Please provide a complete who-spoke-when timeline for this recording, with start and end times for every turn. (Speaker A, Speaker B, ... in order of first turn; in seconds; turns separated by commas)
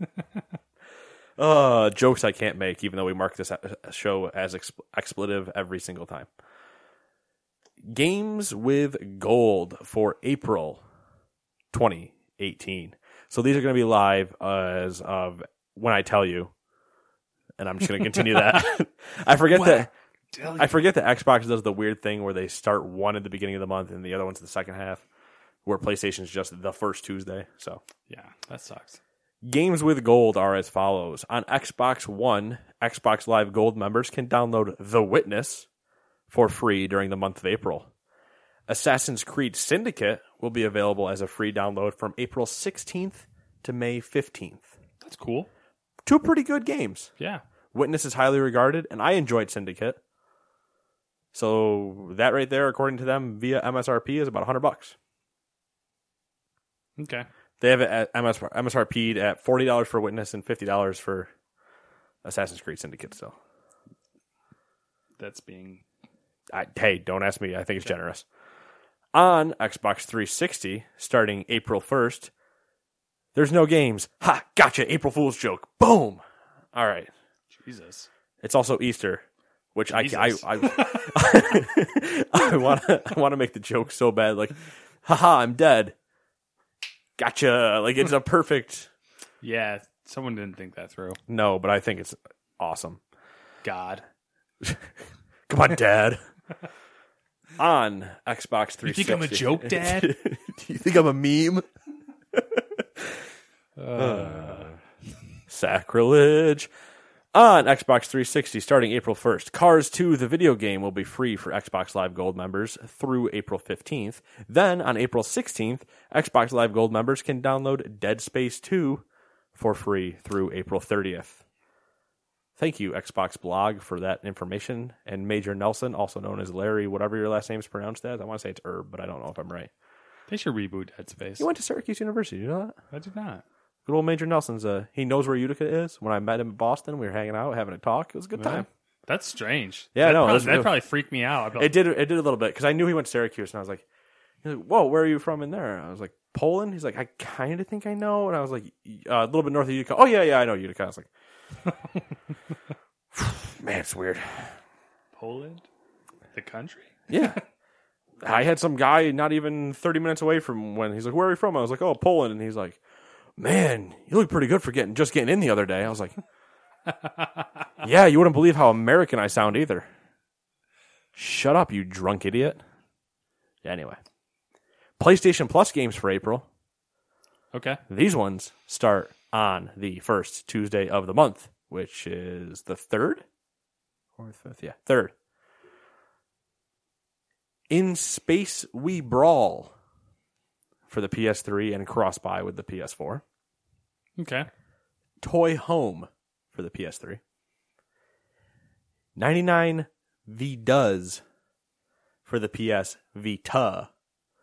Speaker A: 1.4-6.3, Speaker A: 7.8-10.8, Speaker A: 11.7-16.5, Speaker A: 17.6-19.9, Speaker B: 19.5-20.8, Speaker A: 20.6-25.0, Speaker A: 25.6-27.8, Speaker B: 28.1-29.0, Speaker A: 29.4-35.7, Speaker A: 36.3-37.9, Speaker A: 38.7-44.7, Speaker B: 45.0-45.5, Speaker A: 46.0-47.1, Speaker A: 47.7-50.0, Speaker A: 51.3-54.9, Speaker B: 57.0-57.3, Speaker A: 57.6-61.3, Speaker A: 62.2-63.4, Speaker B: 65.2-65.8, Speaker A: 66.5-68.2, Speaker A: 69.1-72.3, Speaker A: 73.3-76.2, Speaker A: 76.7-77.1, Speaker B: 77.5-78.1, Speaker A: 78.4-79.2, Speaker A: 79.7-85.9, Speaker B: 79.9-81.6, Speaker A: 87.2-88.9, Speaker B: 89.4-91.2, Speaker A: 91.3-93.0, Speaker B: 93.6-94.0, Speaker A: 95.5-96.2, Speaker A: 97.6-101.7, Speaker B: 98.8-100.1, Speaker A: 102.3-103.1, Speaker B: 103.8-104.7, Speaker A: 103.9-104.8, Speaker A: 105.5-106.7, Speaker A: 107.3-119.0, Speaker A: 119.5-121.4, Speaker A: 122.6-129.7, Speaker B: 130.3-131.5, Speaker A: 131.4-132.8, Speaker B: 132.9-133.4, Speaker A: 133.8-138.7, Speaker B: 138.4-141.7, Speaker A: 139.9-140.8, Speaker A: 141.6-143.8, Speaker A: 144.4-151.1, Speaker A: 153.1-154.6, Speaker B: 155.2-155.6, Speaker B: 156.3-157.4, Speaker A: 157.1-157.4, Speaker A: 158.2-162.8, Speaker A: 163.4-166.1, Speaker A: 167.8-169.9, Speaker A: 171.1-172.6, Speaker A: 173.6-174.0, Speaker A: 175.0-176.5, Speaker B: 177.5-177.8, Speaker A: 177.9-183.2, Speaker A: 184.2-185.1, Speaker A: 187.7-189.7, Speaker A: 190.9-193.2, Speaker B: 194.2-194.5, Speaker A: 195.2-197.2, Speaker A: 199.2-201.2, Speaker A: 202.2-203.9